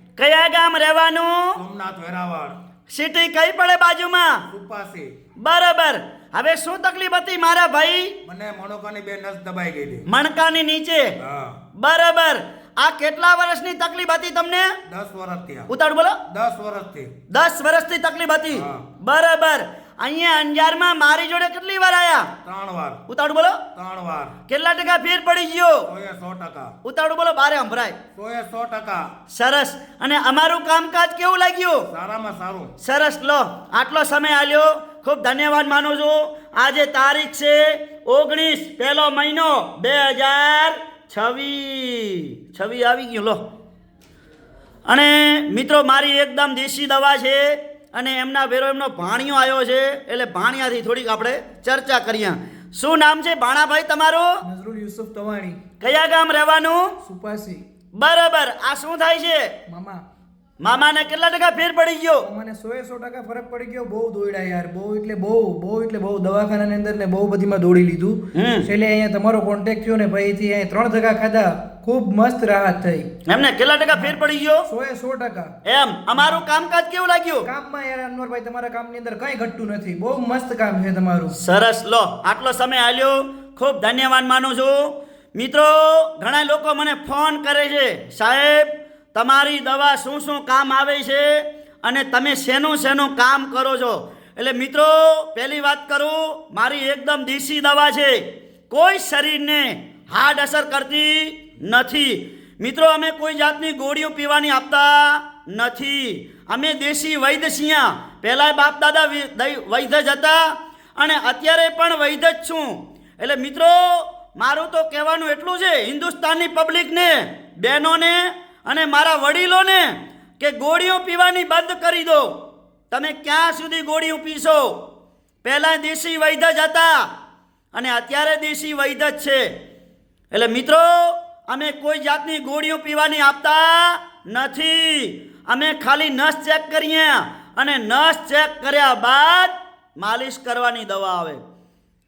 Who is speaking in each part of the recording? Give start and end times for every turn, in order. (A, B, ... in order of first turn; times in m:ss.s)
0:00.2-0:01.6 A
0:01.6-0:02.6 B
0:02.9-0:04.4 A
0:04.5-0:05.1 B
0:05.4-0:08.2 A
0:08.2-0:10.0 B
0:10.1-0:11.1 A
0:11.2-0:11.6 B
0:11.8-0:14.7 A
0:14.9-0:15.7 B
0:15.7-0:16.2 A
0:16.3-0:17.1 B
0:17.3-0:22.3 A
0:18.5-0:18.9 B
0:22.4-0:23.0 B
0:23.1-0:23.6 A
0:23.8-0:24.4 B
0:24.5-0:25.9 A
0:25.9-0:26.7 B
0:26.8-0:28.0 A
0:28.2-0:29.1 B
0:29.3-0:31.9 A
0:31.9-0:32.7 B
0:32.8-0:43.4 A
0:44.9-0:54.4 A
0:54.4-0:55.6 C
0:55.8-0:56.9 A
0:57.0-0:57.7 C
0:58.0-0:59.5 A
0:59.7-1:00.0 C
1:00.6-1:02.3 A
1:02.2-1:13.1 C
1:08.3-1:08.7 A
1:13.3-1:14.7 A
1:13.9-1:15.5 C
1:15.6-1:17.5 A
1:16.2-1:16.4 C
1:17.4-1:21.4 C
1:21.3-2:02.3 A
2:02.9-2:04.8 A
2:05.4-2:07.1 A
2:07.7-2:09.5 A
2:10.3-2:21.4 A